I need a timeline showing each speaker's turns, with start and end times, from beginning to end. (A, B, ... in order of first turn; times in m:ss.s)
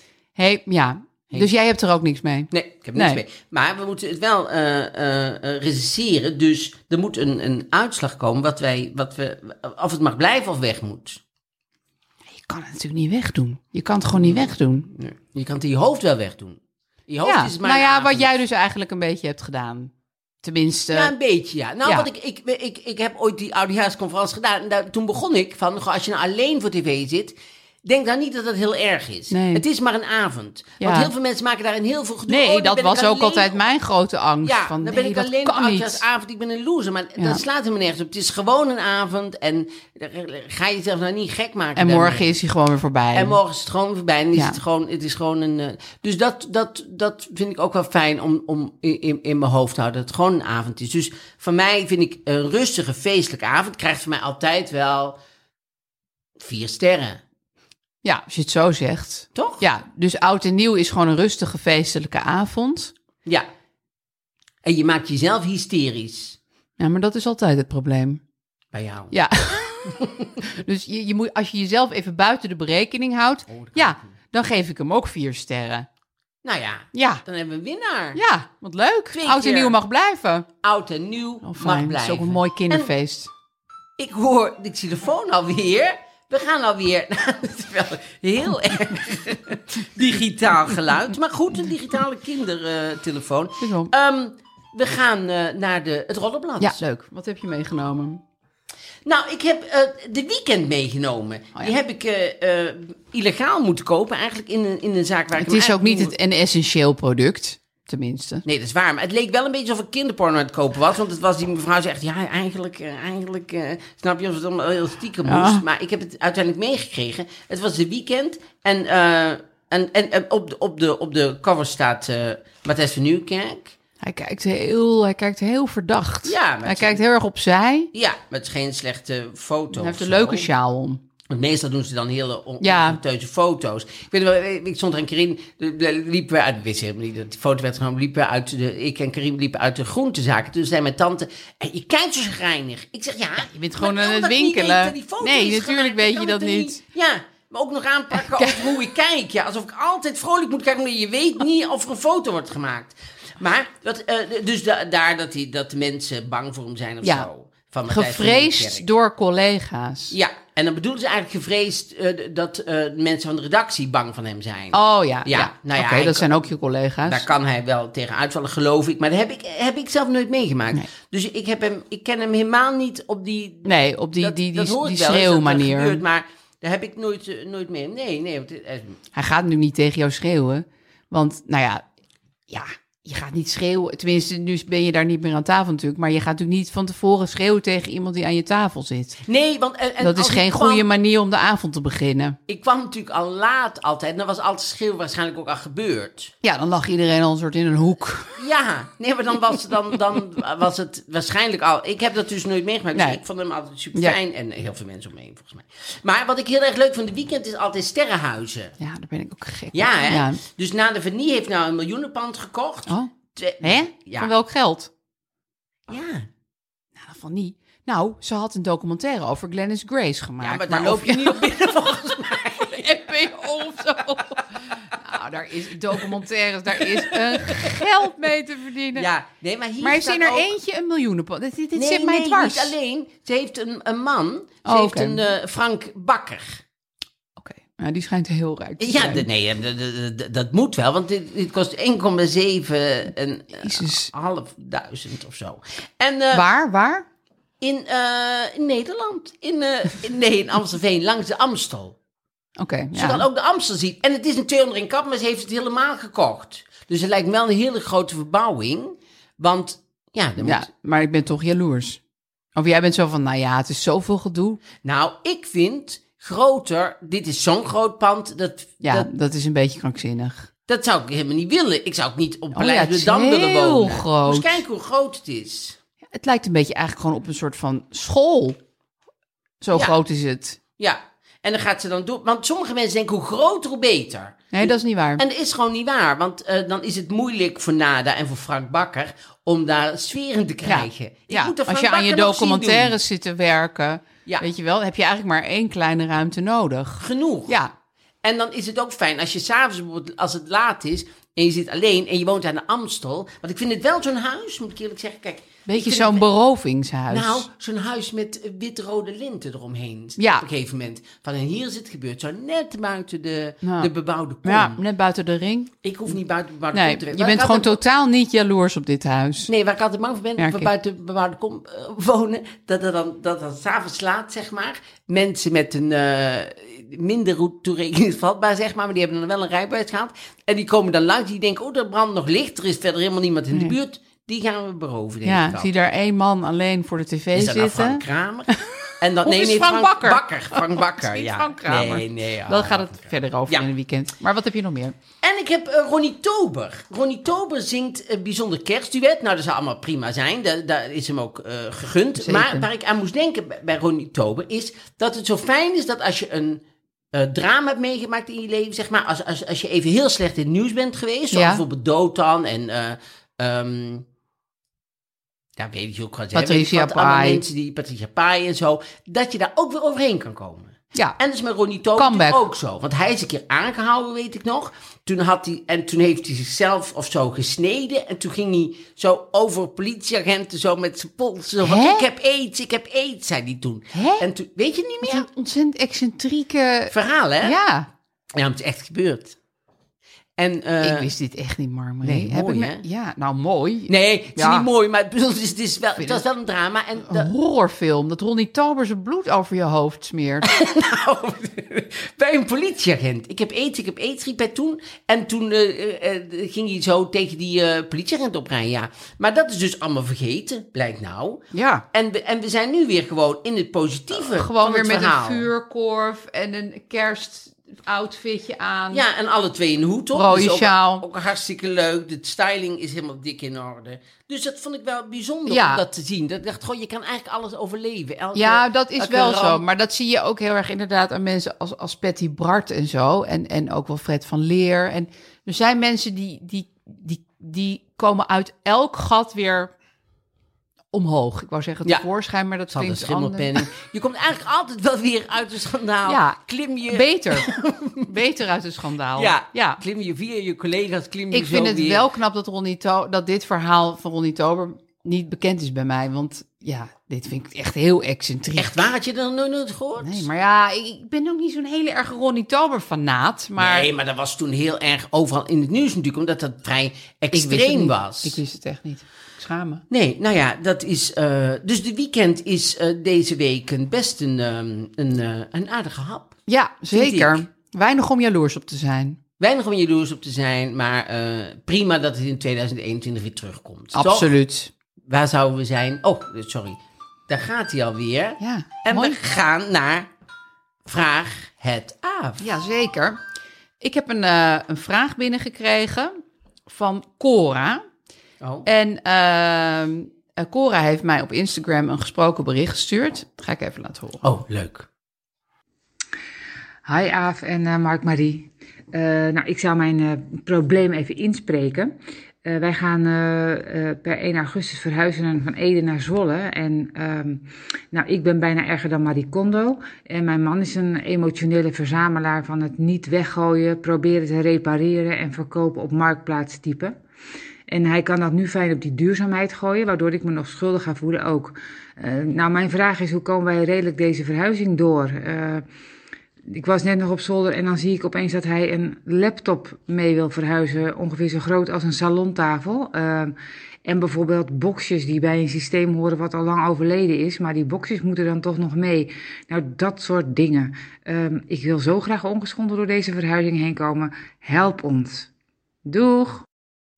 0:00.4-0:03.2 A
0:02.5-0:11.2 B
0:12.3-0:14.9 A
0:14.2-0:18.3 B
0:17.2-0:19.9 A
0:20.4-0:21.1 A
0:20.9-0:33.6 B
0:29.3-0:29.6 A
0:30.8-0:31.1 A
0:32.3-0:36.0 A
0:34.4-0:42.3 B
0:37.2-0:37.4 A
0:41.8-0:43.4 A
0:43.1-0:55.2 B
0:44.3-0:44.6 A
0:56.4-0:57.2 B
0:58.0-1:02.9 A
0:59.3-0:59.6 B
1:04.6-1:06.4 B
1:06.8-1:08.2 A
1:08.7-1:10.3 B
1:09.1-1:09.9 A
1:10.5-1:15.9 A
1:13.5-1:14.1 B
1:16.4-1:18.2 B
1:16.9-1:17.2 A
1:18.1-1:20.5 A
1:19.2-1:19.8 B
1:20.6-1:22.9 B
1:21.4-1:23.3 A
1:24.0-1:36.8 B
1:33.6-1:33.9 A
1:36.6-1:38.2 A
1:39.0-1:46.1 B
1:45.4-1:48.4 A
1:48.4-2:03.8 B
1:55.3-1:55.6 A
2:04.0-2:07.9 A
2:06.2-2:07.0 B
2:07.9-2:10.5 B
2:09.7-2:11.0 A
2:11.3-2:38.9 B
2:12.6-2:13.0 A
2:23.4-2:26.8 A
2:28.1-2:28.7 A
2:37.9-2:40.1 A
2:40.1-2:46.4 B
2:44.7-2:47.3 A
2:47.1-2:59.0 B
2:53.6-2:56.0 A
2:59.1-3:01.8 A
3:02.5-3:09.2 A
3:09.2-3:10.9 B
3:10.0-3:12.4 A
3:12.5-3:16.3 B
3:16.4-3:18.4 A
3:18.4-3:28.8 B
3:22.9-3:23.2 A
3:28.8-3:30.4 A
3:29.7-3:34.3 B
3:33.6-3:34.9 A
3:35.9-3:36.3 B
3:37.0-3:41.5 A
3:40.4-3:43.0 B
3:42.7-3:49.1 A
3:46.8-3:47.8 B
3:48.9-3:50.5 B
3:49.8-3:52.7 A
3:51.7-3:56.6 B
3:54.6-3:55.2 A
3:57.4-3:59.2 A
3:58.8-4:06.4 B
4:03.6-4:04.1 A
4:06.3-4:07.0 A
4:07.6-4:12.0 B
4:12.6-4:13.2 A
4:12.9-4:20.7 B
4:20.4-4:22.0 A
4:22.6-4:24.6 A
4:24.8-4:29.1 B
4:28.8-4:30.5 A
4:30.7-4:35.8 B
4:32.5-4:34.6 A
4:36.1-4:38.6 A
4:39.6-4:40.6 A
4:40.8-4:53.0 B
4:44.5-4:45.2 A
4:50.6-4:57.7 A
4:57.0-4:57.6 B
4:58.2-5:06.3 B
5:05.7-5:07.5 A
5:07.1-5:14.8 B
5:10.2-5:10.4 A
5:13.6-5:13.9 A
5:14.4-5:15.7 A
5:15.8-5:17.8 B
5:16.7-5:19.5 A
5:19.5-5:35.7 B
5:20.4-5:20.7 A
5:35.2-5:38.0 A
5:37.3-5:43.7 B
5:38.6-5:45.0 A
5:45.2-6:04.0 B
5:52.2-5:52.7 A
6:01.3-6:01.6 A
6:05.6-6:25.3 B
6:06.3-6:07.4 A
6:12.0-6:12.4 A
6:21.6-6:22.0 A
6:23.9-6:24.3 A
6:25.0-6:27.9 A
6:26.9-6:27.6 B
6:28.3-6:29.4 B
6:30.4-6:31.1 B
6:30.8-6:34.6 A
6:32.0-6:32.8 B
6:33.9-6:37.3 B
6:36.0-6:36.2 A
6:37.0-6:40.5 A
6:40.4-6:55.5 B
6:51.5-6:51.8 A
6:54.1-6:59.0 A
6:58.9-7:09.6 B
7:00.1-7:01.0 A
7:05.5-7:05.8 A
7:08.3-7:19.7 A
7:20.9-7:23.6 A
7:22.7-7:28.1 B
7:26.0-7:26.4 A
7:26.9-7:27.5 A
7:28.0-7:29.8 A
7:29.2-7:32.1 B
7:31.3-7:38.9 A
7:38.6-7:40.3 B
7:40.0-7:43.9 A
7:43.6-7:48.4 B
7:47.3-7:49.8 A
7:49.9-7:56.4 B
7:56.5-7:59.2 A
7:56.9-7:57.4 B
7:59.4-8:04.3 B
8:03.9-8:04.7 A
8:05.1-8:10.1 B
8:08.4-8:09.2 A
8:10.8-8:12.4 B
8:12.4-8:13.2 A
8:13.8-8:17.8 A
8:18.4-8:18.7 B
8:18.6-8:24.2 A
8:24.2-8:24.9 B
8:26.8-8:31.9 C
8:32.4-8:47.0 C
8:47.7-8:55.6 C
8:56.5-9:15.3 C
9:15.8-9:16.4 C